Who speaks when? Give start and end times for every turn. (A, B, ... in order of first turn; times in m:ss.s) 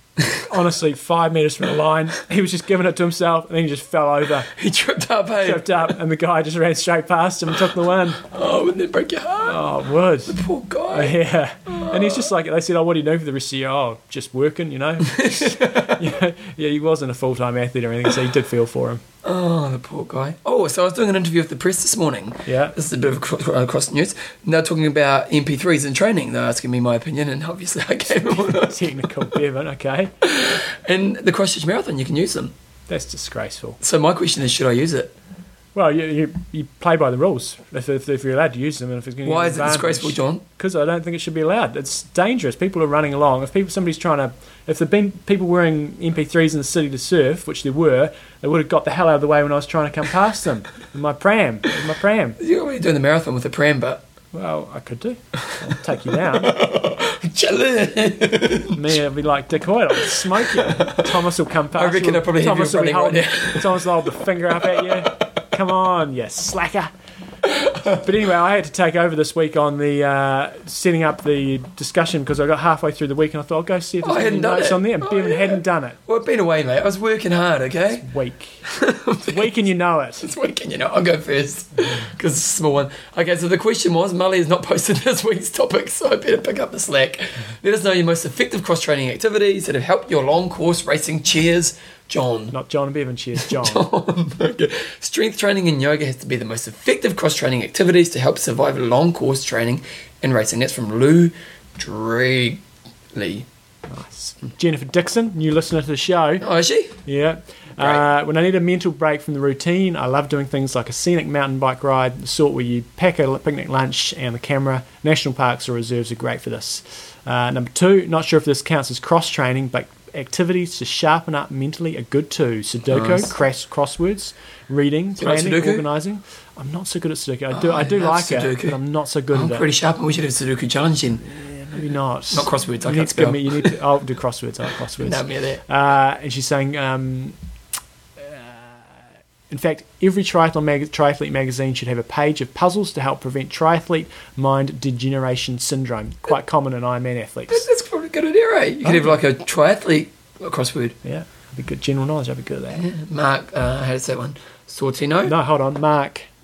0:00.3-0:04.5 A
0:04.5-0:05.9 B
0:05.4-0:08.2 A
0:08.2-0:09.6 B
0:09.4-0:10.4 A
0:10.3-0:11.2 B
0:10.9-0:19.0 A
0:11.7-0:12.3 B
0:15.0-0:16.1 B
0:19.2-0:28.8 B
0:22.5-0:22.8 A
0:28.1-0:30.1 A
0:30.2-0:32.5 B
0:32.9-0:33.8 A
0:33.8-0:35.1 B
0:35.8-0:52.4 A
0:39.2-0:40.4 B
0:52.4-0:54.0 B
0:54.3-0:56.5 A
0:55.5-0:58.9 B
0:58.7-1:06.9 A
1:00.4-1:01.1 B
1:01.7-1:05.4 B
1:07.4-1:08.0 B
1:07.8-1:16.0 A
1:14.0-1:18.1 B
1:18.0-1:18.6 A
1:18.6-1:19.5 B
1:19.3-1:20.3 A
1:20.2-1:32.5 B
1:32.5-1:33.8 A
1:33.4-1:42.6 B
1:43.1-1:43.5 B
1:43.9-1:46.4 A
1:46.4-1:47.0 B
1:47.1-2:09.7 A
2:02.9-2:03.3 B
2:05.2-2:05.8 B
2:07.5-2:08.8 B
2:09.3-2:11.3 B
2:11.4-2:17.4 A
2:12.3-2:13.8 B
2:15.0-2:15.6 B
2:18.2-2:18.8 A
2:19.5-2:27.7 A
2:27.5-2:31.0 B
2:28.8-2:29.2 A
2:31.0-2:32.9 A
2:32.7-2:35.4 B
2:35.3-2:36.3 A